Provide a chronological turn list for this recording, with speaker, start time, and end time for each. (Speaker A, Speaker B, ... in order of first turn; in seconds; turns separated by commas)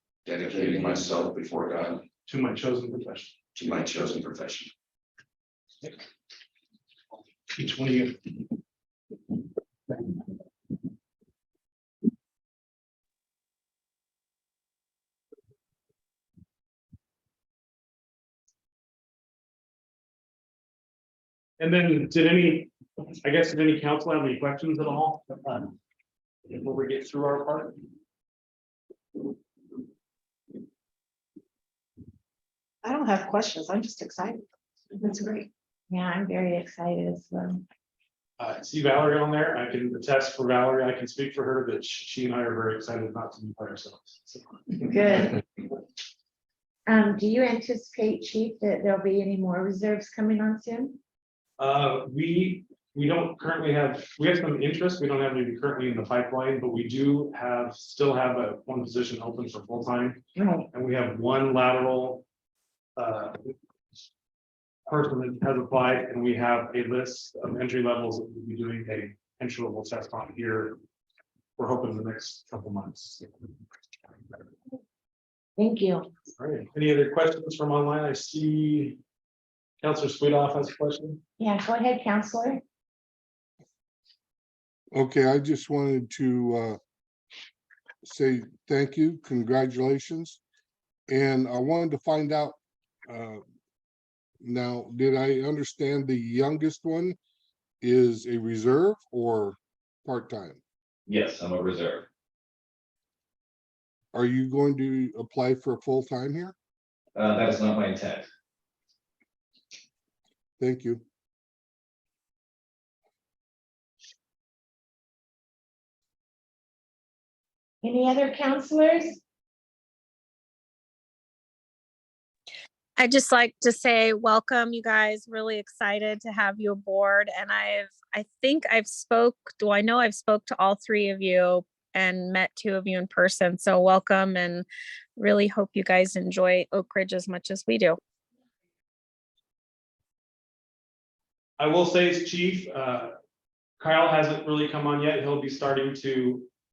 Speaker A: 0.2-2.0, Speaker B: 2.2-3.4, Speaker A: 3.5-4.7, Speaker B: 7.5-8.3, Speaker B: 21.6-25.8, Speaker B: 26.5-27.8, Speaker C: 32.8-34.4, Speaker C: 35.0-35.5, Speaker D: 35.9-37.6, Speaker B: 38.4-44.8, Speaker D: 44.8-45.4, Speaker D: 46.9-51.0, Speaker B: 51.6-62.2, Speaker D: 60.4-60.7, Speaker B: 63.0-63.5, Speaker B: 64.9-70.8, Speaker B: 71.6-73.3, Speaker D: 75.6-76.1, Speaker B: 76.4-79.0, Speaker B: 79.8-81.2, Speaker D: 81.4-82.6, Speaker E: 84.9-86.8, Speaker E: 88.0-90.4, Speaker E: 91.1-93.4, Speaker E: 94.4-97.2, Speaker E: 97.8-100.6, Speaker F: 101.1-102.1, Speaker E: 104.1-106.5, Speaker F: 107.1-108.3, Speaker E: 110.6-111.0, Speaker D: 117.8-119.2, Speaker G: 123.1-131.4, Speaker G: 132.2-134.3, Speaker G: 135.4-136.0, Speaker G: 137.5-137.9, Speaker B: 141.6-143.2, Speaker B: 143.8-146.5